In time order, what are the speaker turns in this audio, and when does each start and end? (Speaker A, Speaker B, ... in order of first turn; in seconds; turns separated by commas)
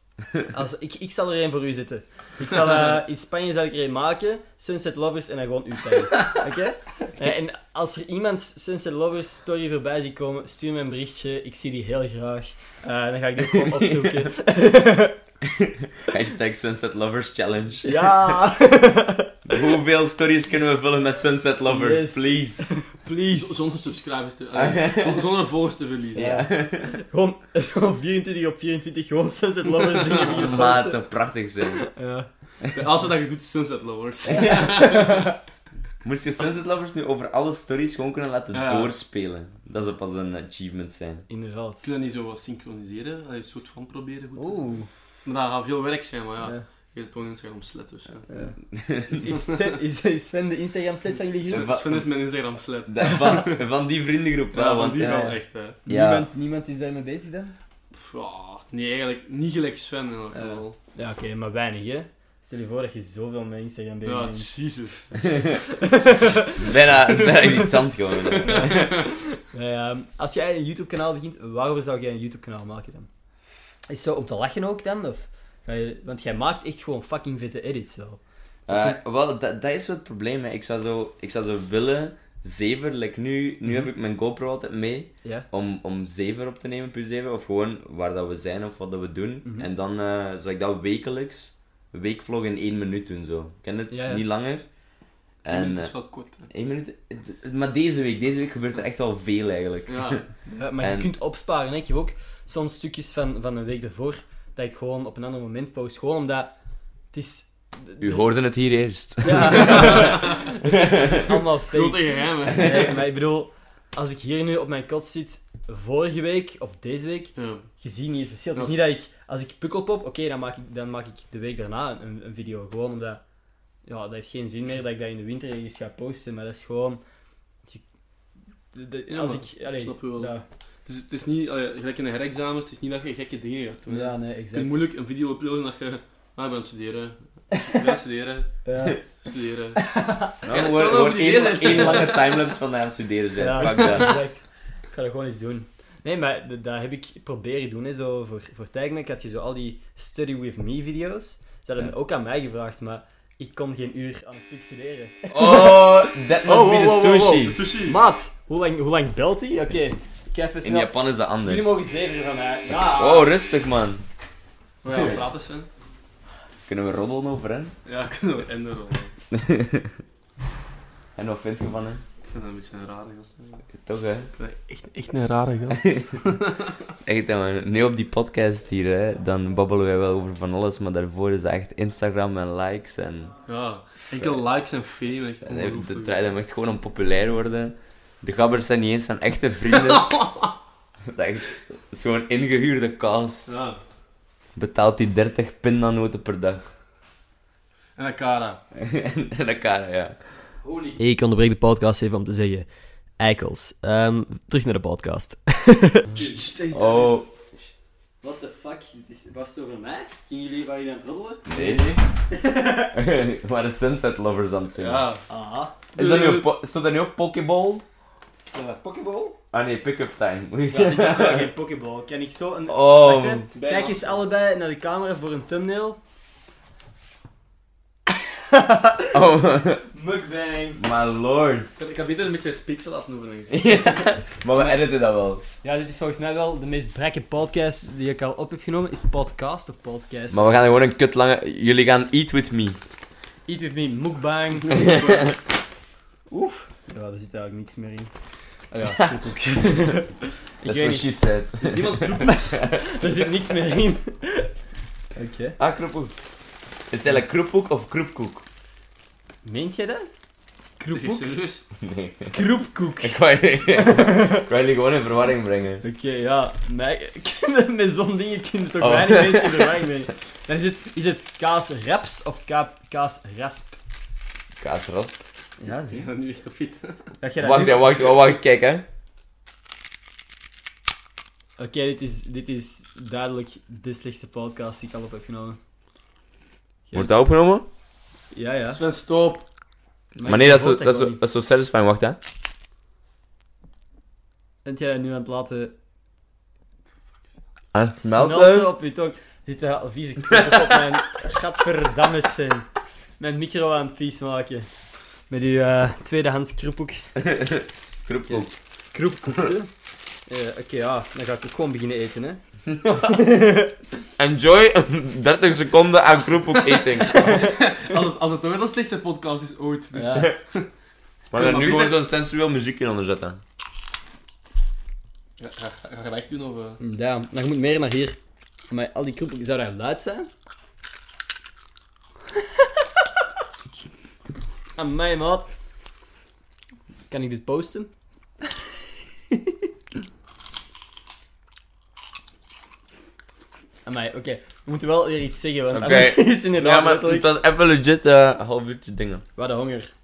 Speaker A: 0.4-15.2, Speaker B: 13.4-14.3, Speaker B: 15.6-18.4, Speaker A: 17.8-19.5, Speaker B: 19.5-22.7, Speaker A: 21.7-23.6, Speaker C: 23.3-26.4, Speaker B: 24.5-25.3, Speaker B: 26.1-26.9, Speaker A: 26.2-31.0, Speaker C: 30.1-30.4, Speaker B: 30.3-31.8, Speaker A: 31.6-32.3, Speaker C: 32.7-35.4, Speaker B: 34.3-34.9, Speaker A: 34.8-35.3, Speaker B: 36.0-41.3, Speaker C: 38.5-38.9, Speaker A: 41.3-41.8, Speaker C: 41.8-48.3, Speaker A: 44.4-44.9, Speaker A: 48.3-48.5, Speaker B: 48.7-49.3, Speaker A: 49.1-51.7, Speaker C: 49.2-49.8, Speaker C: 51.2-53.6, Speaker B: 51.5-52.1, Speaker B: 52.9-56.3, Speaker C: 54.5-55.8, Speaker A: 55.9-57.5, Speaker C: 57.9-60.8, Speaker A: 60.3-64.5, Speaker C: 64.0-65.3, Speaker A: 65.7-67.5, Speaker B: 66.4-68.8, Speaker C: 68.2-69.1, Speaker A: 68.5-73.1, Speaker A: 73.9-78.2, Speaker B: 78.7-94.6, Speaker A: 89.4-89.7, Speaker A: 93.9-94.2, Speaker B: 95.4-95.9, Speaker C: 95.5-96.5, Speaker B: 96.5-100.2, Speaker C: 99.9-100.2, Speaker A: 100.5-106.5, Speaker B: 100.8-101.1, Speaker A: 107.1-108.3, Speaker B: 108.0-111.2, Speaker A: 109.2-123.2, Speaker C: 109.5-110.5, Speaker C: 111.7-113.0, Speaker C: 117.3-117.7, Speaker A: 123.8-127.0, Speaker A: 128.7-130.4, Speaker C: 129.1-130.3, Speaker C: 130.8-138.5, Speaker A: 133.9-134.8, Speaker A: 138.6-139.0, Speaker C: 139.2-139.8, Speaker A: 139.8-140.4, Speaker C: 140.4-142.6, Speaker B: 140.4-144.2, Speaker A: 143.4-163.3, Speaker C: 143.6-144.1, Speaker B: 155.3-157.6, Speaker C: 157.3-158.0, Speaker B: 160.6-161.8, Speaker B: 162.7-164.0, Speaker C: 164.8-165.7, Speaker B: 164.9-165.2, Speaker B: 166.7-167.7, Speaker C: 167.8-169.1, Speaker B: 169.3-169.9, Speaker B: 171.2-172.0, Speaker C: 172.2-173.7, Speaker B: 173.8-174.3, Speaker C: 174.3-176.8, Speaker B: 175.7-176.2, Speaker B: 177.0-183.3, Speaker C: 183.5-186.3, Speaker B: 185.4-190.1, Speaker C: 189.7-190.5, Speaker B: 191.1-193.6, Speaker C: 193.4-193.8, Speaker B: 194.6-196.6, Speaker C: 198.0-198.6, Speaker B: 198.7-200.1, Speaker A: 200.6-202.7, Speaker A: 203.2-206.3, Speaker C: 206.1-207.2, Speaker B: 206.7-207.3, Speaker A: 208.2-212.9, Speaker B: 211.5-212.0, Speaker B: 212.9-215.1, Speaker C: 214.8-215.2, Speaker A: 215.3-215.8, Speaker C: 215.9-216.5, Speaker B: 215.9-217.8, Speaker A: 218.4-219.4, Speaker B: 219.5-221.5, Speaker A: 220.7-226.0, Speaker B: 222.7-223.4, Speaker C: 223.5-224.2, Speaker A: 228.1-229.2, Speaker B: 229.1-229.8, Speaker A: 229.9-230.8, Speaker B: 230.8-231.8, Speaker C: 231.8-233.9, Speaker B: 233.5-235.4, Speaker A: 235.6-240.5, Speaker B: 240.3-242.8, Speaker A: 243.5-245.2, Speaker A: 246.3-248.1, Speaker A: 248.7-251.1, Speaker B: 250.6-253.1, Speaker C: 251.6-252.5, Speaker A: 252.2-254.5, Speaker A: 255.1-255.6, Speaker B: 255.6-256.1, Speaker B: 256.9-258.4, Speaker A: 259.4-260.1, Speaker A: 260.8-261.3, Speaker C: 260.9-261.6, Speaker B: 261.8-262.4, Speaker A: 262.3-263.2, Speaker B: 263.0-265.8, Speaker A: 263.8-264.4, Speaker A: 265.8-273.8, Speaker B: 268.8-269.8, Speaker B: 274.6-275.2, Speaker A: 275.6-276.0, Speaker C: 275.9-277.1, Speaker A: 277.2-278.1, Speaker B: 277.4-278.8, Speaker A: 281.6-285.6, Speaker A: 286.9-287.2, Speaker B: 286.9-287.7, Speaker A: 288.3-288.8, Speaker C: 288.7-289.4, Speaker A: 290.2-291.2, Speaker B: 290.2-292.2, Speaker A: 294.6-295.7, Speaker B: 297.7-298.7, Speaker A: 298.0-302.7, Speaker A: 303.2-304.7, Speaker A: 305.3-307.0, Speaker B: 307.2-308.5, Speaker A: 308.3-309.7, Speaker A: 310.3-312.4, Speaker B: 312.7-313.2, Speaker A: 313.0-313.7, Speaker B: 314.2-317.5, Speaker C: 316.6-320.7, Speaker A: 317.3-317.5, Speaker A: 319.9-320.3, Speaker B: 321.3-323.4, Speaker C: 321.3-322.0, Speaker C: 325.4-326.8, Speaker A: 326.8-328.2, Speaker A: 328.7-330.3, Speaker A: 332.6-333.0, Speaker A: 334.8-335.5, Speaker A: 337.1-337.9, Speaker A: 339.3-339.7, Speaker A: 343.9-347.3, Speaker B: 345.7-349.2, Speaker A: 349.4-349.9